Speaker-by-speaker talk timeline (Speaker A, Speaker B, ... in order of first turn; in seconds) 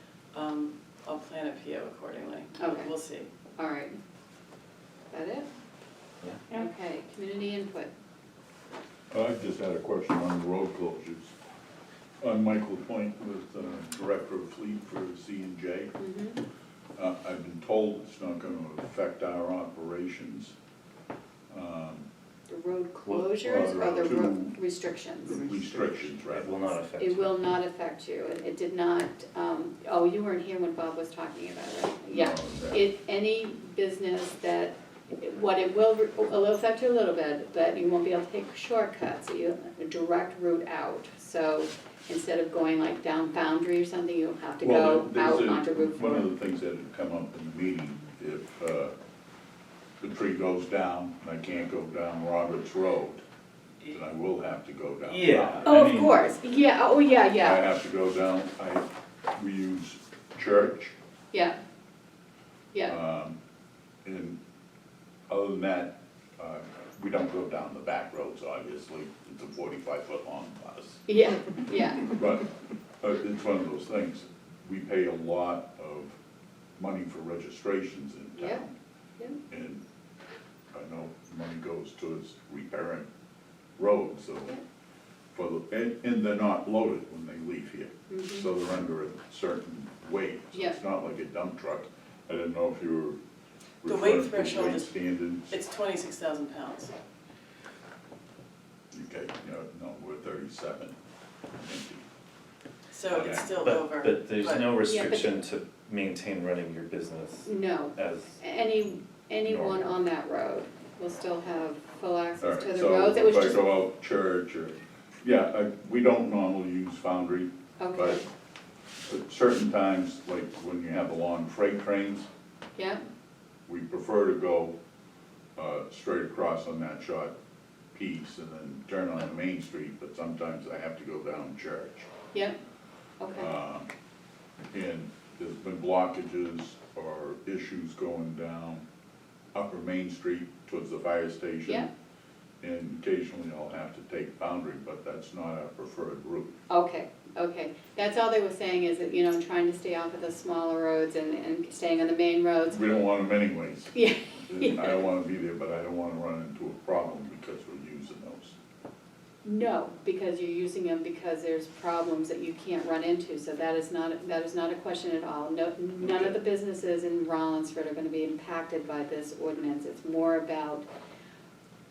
Speaker A: 0.3-3.3, 93.8-95.0, 95.5-96.9, 102.9-104.7
Speaker B: 2.6-2.9, 3.5-4.0, 5.1-5.5, 6.5-7.9, 16.0-16.4, 22.5-25.4, 27.0-46.3, 55.6-57.6, 62.7-63.0, 71.1-72.1, 78.4-78.7, 88.1-88.5, 90.5-90.8, 104.8-105.4, 107.4-113.6, 117.8-118.2, 133.2-133.5, 146.7-152.8, 153.9-155.1, 159.4-170.8
Speaker C: 9.1-11.3, 12.2-15.9, 16.9-20.5, 21.5-22.0, 23.4-24.5, 25.3-26.6, 32.1-32.8, 44.6-48.9, 50.0-53.2, 53.8-55.7, 57.4-60.9, 62.9-63.4, 64.0-64.4, 65.3-71.0, 72.1-72.5, 73.0-76.2, 76.8-78.7, 79.5-79.8, 80.7-83.0, 83.8-84.5, 85.3-93.2, 93.8-95.5, 98.9-100.9, 101.6-102.0, 103.1-103.6, 112.4-118.2, 119.1-122.3, 123.7-124.8, 125.5-127.3, 127.9-132.1, 133.3-133.9, 134.7-138.8, 139.5-141.9, 142.6-146.5, 152.7-158.6, 166.0-166.3
Speaker D: 23.0-23.7, 26.3-27.4, 55.0-56.2, 103.6-108.4, 109.4-110.0